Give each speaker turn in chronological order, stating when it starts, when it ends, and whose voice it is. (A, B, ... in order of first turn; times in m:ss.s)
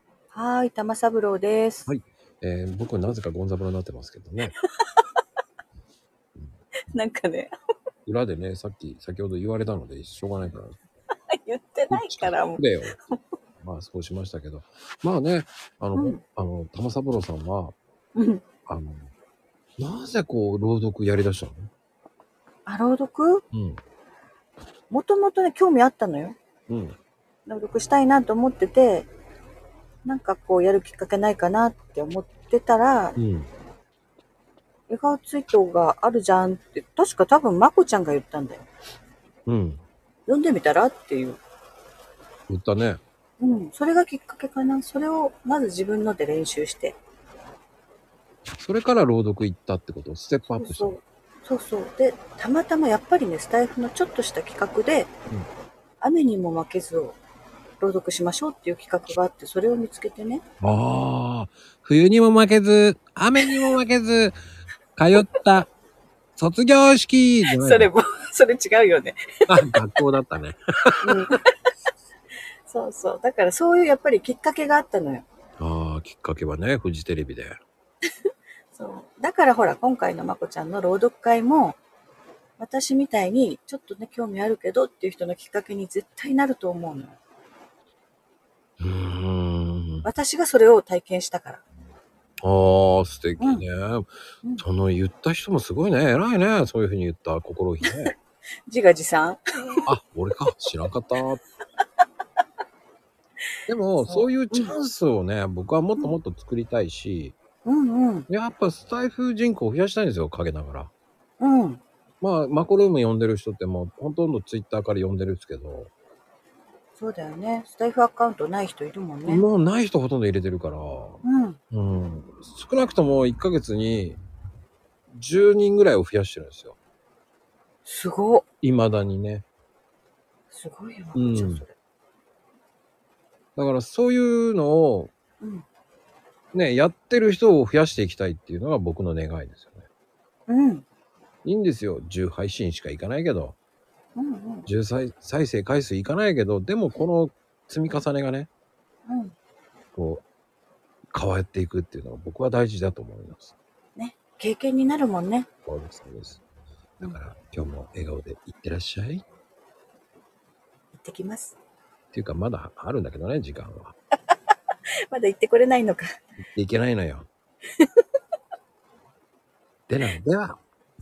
0:00.3-0:01.9 A
0:01.9-0:04.6 B
0:06.9-0:07.5 A
0:08.0-0:10.8 B
0:11.3-0:13.2 A
0:11.9-0:13.0 B
0:13.6-0:17.8 B
0:16.0-0:16.2 A
0:18.2-0:18.4 A
0:18.7-0:19.1 B
0:19.8-0:21.7 B
0:22.6-0:23.4 A
0:23.5-0:23.8 B
0:24.9-0:26.4 A
0:26.7-0:27.0 B
0:27.5-0:29.1 A
0:30.0-0:33.2 A
0:33.2-0:33.5 B
0:34.9-0:38.6 A
0:39.5-0:39.8 B
0:40.3-0:41.4 A
0:42.5-0:43.0 B
0:43.4-0:47.0 A
0:48.6-0:51.0 B
0:50.5-0:55.1 A
0:56.0-0:57.2 A
0:57.8-1:00.4 A
1:00.6-1:04.4 B
1:05.0-1:05.7 B
1:06.4-1:07.9 B
1:07.6-1:09.6 A
1:09.5-1:11.2 B
1:11.0-1:11.4 A
1:12.7-1:15.2 A
1:15.6-1:17.6 B
1:18.7-1:21.8 A
1:22.6-1:27.2 A
1:28.8-1:30.0 B
1:30.0-1:31.6 A
1:32.4-1:34.1 B
1:33.4-1:33.6 A
1:34.6-1:38.1 B
1:38.7-1:39.8 A
1:39.9-1:41.4 B
1:43.7-1:47.4 B
1:44.0-1:44.7 A
1:47.6-1:48.3 A
1:48.3-1:50.9 B
1:51.4-1:51.8 A
1:52.2-1:55.9 B
1:57.0-1:59.4 A
1:59.2-2:01.2 B
2:01.2-2:01.6 A
2:01.7-2:04.2 B
2:05.1-2:06.8 B
2:07.8-2:08.4 A
2:08.6-2:09.4 B
2:10.5-2:11.7 A
2:11.1-2:11.6 B
2:13.6-2:15.1 B
2:16.5-2:19.8 B
2:20.5-2:20.8 A
2:21.4-2:23.6 B
2:24.2-2:24.7 A
2:24.6-2:28.5 B
2:29.1-2:29.3 A
2:30.0-2:30.2 B
2:31.1-2:33.5 B
2:34.0-2:35.5 A
2:35.6-2:36.4 B
2:37.0-2:39.2 B
2:40.9-2:41.6 A
2:42.1-2:43.9 B
2:45.1-2:46.1 A
2:46.4-2:47.3 B
2:49.9-2:50.6 B